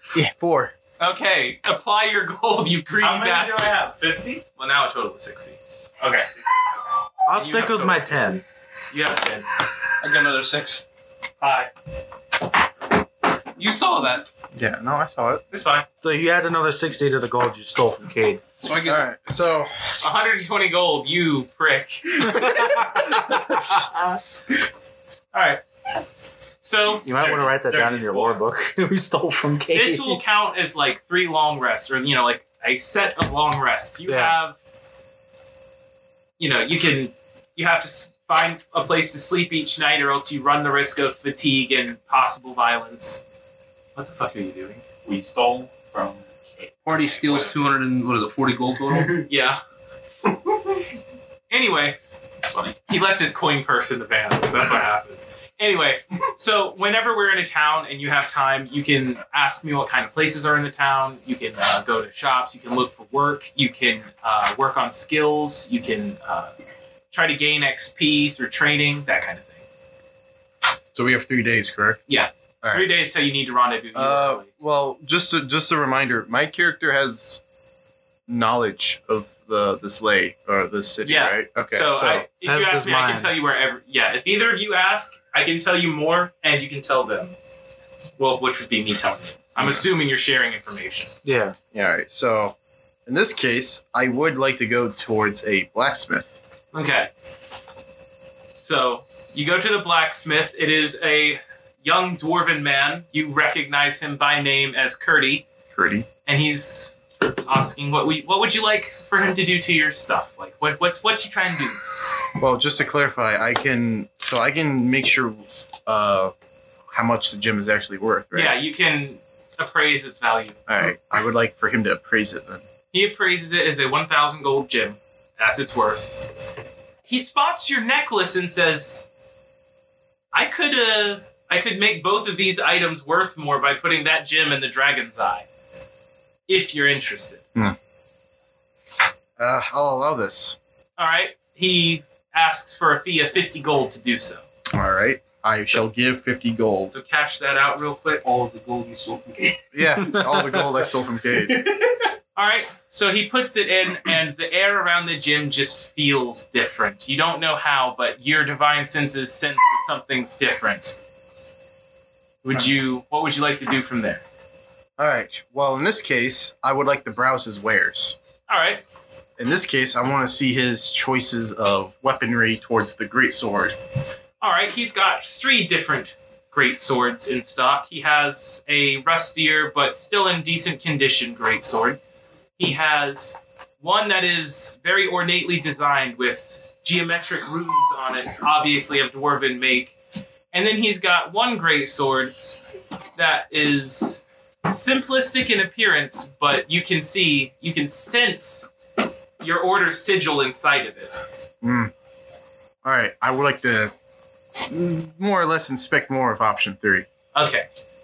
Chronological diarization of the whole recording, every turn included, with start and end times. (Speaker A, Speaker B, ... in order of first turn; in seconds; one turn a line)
Speaker A: 0.1-0.7
Speaker B: 1.0-3.8
Speaker C: 3.0-4.4
Speaker B: 4.5-5.6
Speaker C: 6.0-6.8
Speaker D: 7.2-8.4
Speaker B: 7.3-9.4
Speaker E: 10.0-10.8
Speaker C: 11.4-11.7
Speaker E: 13.6-14.2
Speaker A: 14.5-15.4
Speaker B: 15.5-15.8
Speaker D: 16.0-18.4
Speaker E: 18.6-19.0
Speaker A: 18.8-19.9
Speaker B: 20.0-23.5
Speaker D: 22.3-23.8
Speaker B: 25.3-25.6
Speaker B: 26.6-28.4
Speaker D: 27.0-30.2
Speaker B: 29.7-34.6
Speaker D: 34.0-34.4
Speaker B: 36.4-43.2
Speaker B: 44.0-44.8
Speaker C: 44.8-47.5
Speaker E: 46.8-49.2
Speaker B: 49.3-49.6
Speaker B: 51.5-52.0
Speaker C: 52.4-52.8
Speaker B: 52.9-66.5
Speaker B: 67.1-69.6
Speaker A: 70.9-72.0
Speaker B: 72.1-74.5
Speaker A: 72.6-72.9
Speaker A: 73.9-77.4
Speaker A: 78.3-82.2
Speaker B: 81.0-87.4
Speaker D: 82.4-83.3
Speaker B: 88.2-91.1
Speaker A: 89.6-89.9
Speaker D: 91.2-91.5
Speaker A: 91.7-96.4
Speaker B: 96.7-97.1
Speaker B: 98.6-105.5
Speaker A: 105.7-106.1
Speaker B: 106.2-111.8
Speaker A: 112.4-116.3
Speaker A: 116.9-118.6
Speaker B: 118.3-120.6
Speaker A: 120.7-122.6
Speaker B: 122.9-126.2
Speaker B: 127.1-129.1
Speaker B: 130.3-135.4
Speaker B: 136.5-137.4
Speaker A: 139.4-140.6
Speaker B: 141.0-144.4
Speaker A: 144.7-146.9
Speaker B: 146.9-148.2
Speaker E: 148.2-149.6
Speaker A: 149.7-151.7
Speaker B: 152.3-161.0
Speaker B: 162.4-164.2
Speaker A: 165.0-168.2
Speaker B: 168.5-168.8
Speaker A: 169.4-173.8
Speaker B: 174.4-182.0
Speaker B: 182.6-189.9
Speaker B: 190.5-192.3
Speaker B: 193.2-198.7
Speaker B: 199.4-201.2
Speaker A: 201.6-201.9
Speaker A: 202.8-203.9
Speaker A: 204.7-207.1
Speaker B: 207.3-207.7